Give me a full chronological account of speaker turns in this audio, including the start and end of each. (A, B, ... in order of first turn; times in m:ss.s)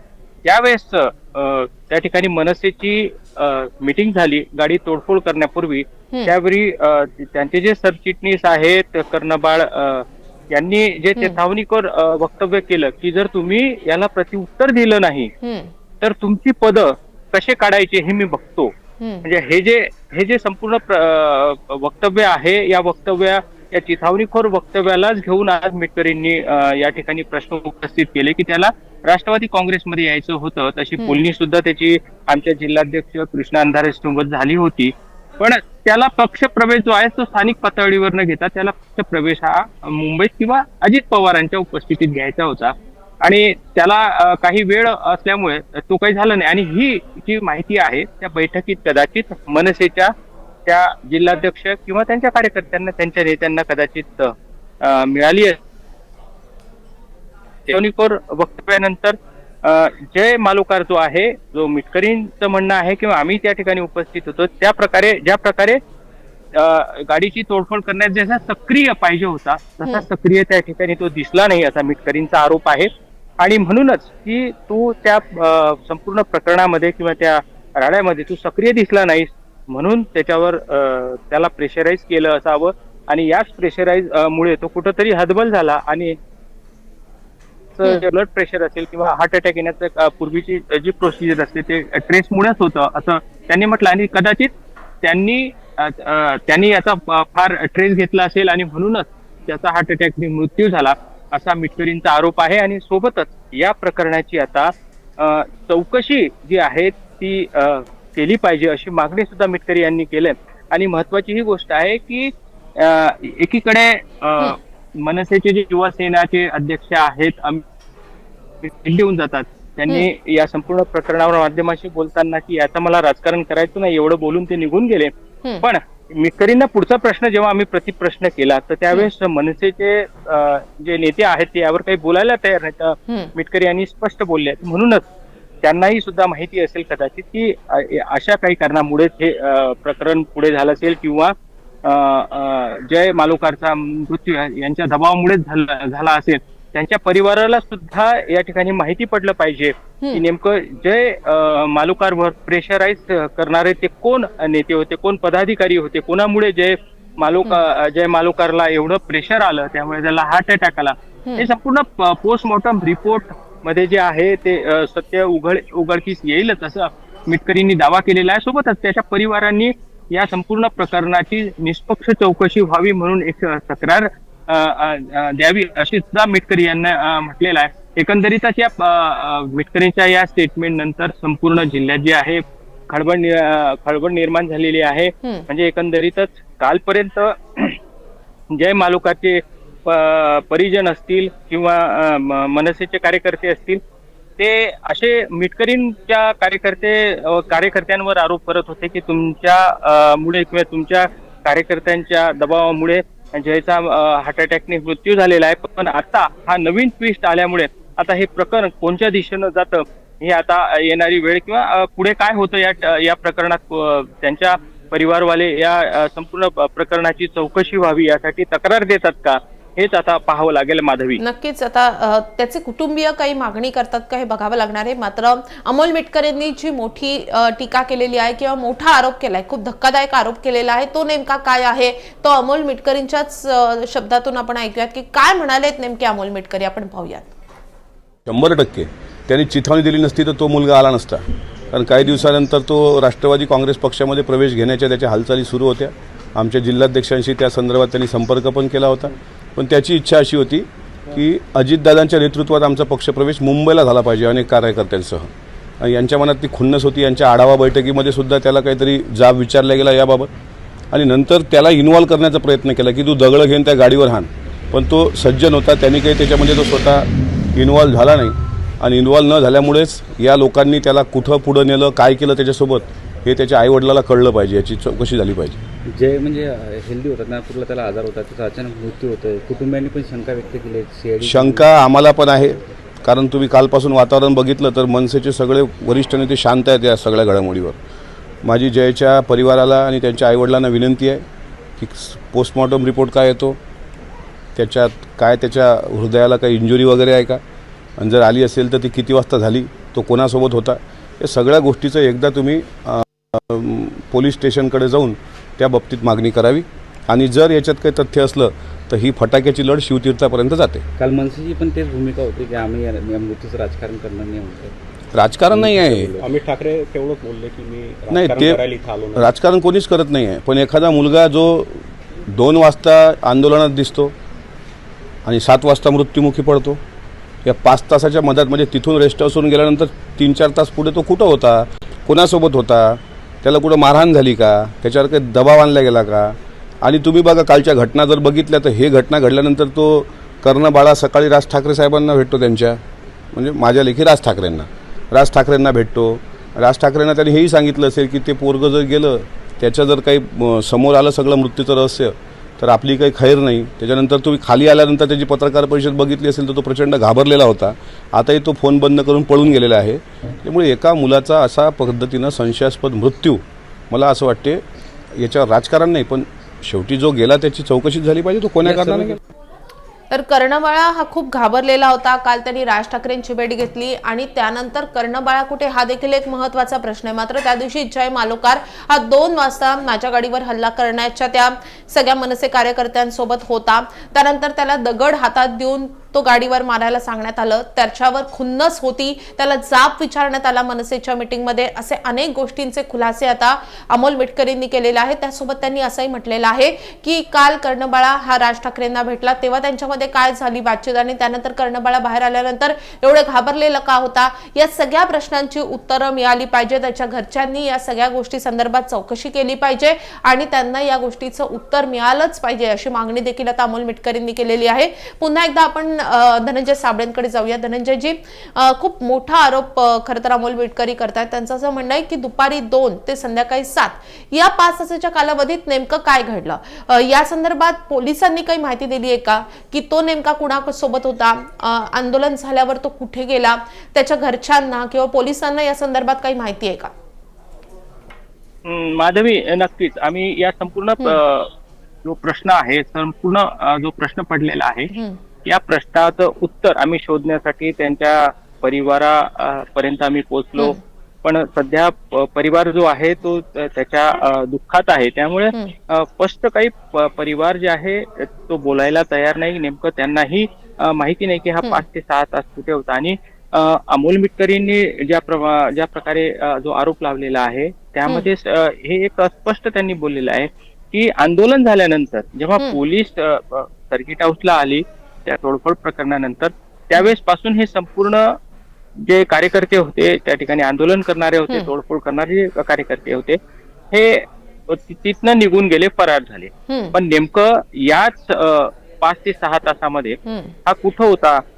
0:00.4-0:15.3 A
0:15.4-0:15.7 B
0:16.0-0:18.7 A
0:19.2-0:50.1 A
0:50.7-0:55.6 A
0:57.7-1:05.8 A
1:06.5-1:12.9 A
1:13.4-1:26.2 A
1:27.8-1:34.5 A
1:35.0-1:57.6 A
1:58.6-2:05.1 A
2:05.6-2:15.0 A
2:15.6-3:07.8 A
3:08.5-3:13.8 A
3:14.4-3:41.2 A
3:41.2-3:57.3 B
3:58.3-4:20.3 C
4:20.9-4:35.6 C
4:35.9-4:41.7 D
4:41.2-4:47.8 C
4:48.4-4:51.2 C
4:51.8-4:53.6 C
4:54.6-4:57.4 C
4:58.0-5:10.8 C
5:11.0-5:14.7 D
5:15.1-5:16.1 C
5:15.5-5:16.3 D
5:16.2-5:19.3 E
5:18.1-5:18.6 C
5:19.2-5:24.1 C
5:25.2-5:26.8 C
5:27.4-5:42.8 C
5:43.3-6:04.6 C
6:05.2-6:09.2 C
6:08.6-6:09.2 D
6:10.1-7:16.9 B
7:18.6-7:21.5 A
7:22.0-7:24.9 A
7:24.9-7:25.2 B
7:25.4-7:58.3 A
7:59.0-8:03.4 A
8:03.9-8:11.4 A
8:06.7-8:07.0 B
8:10.3-8:10.6 B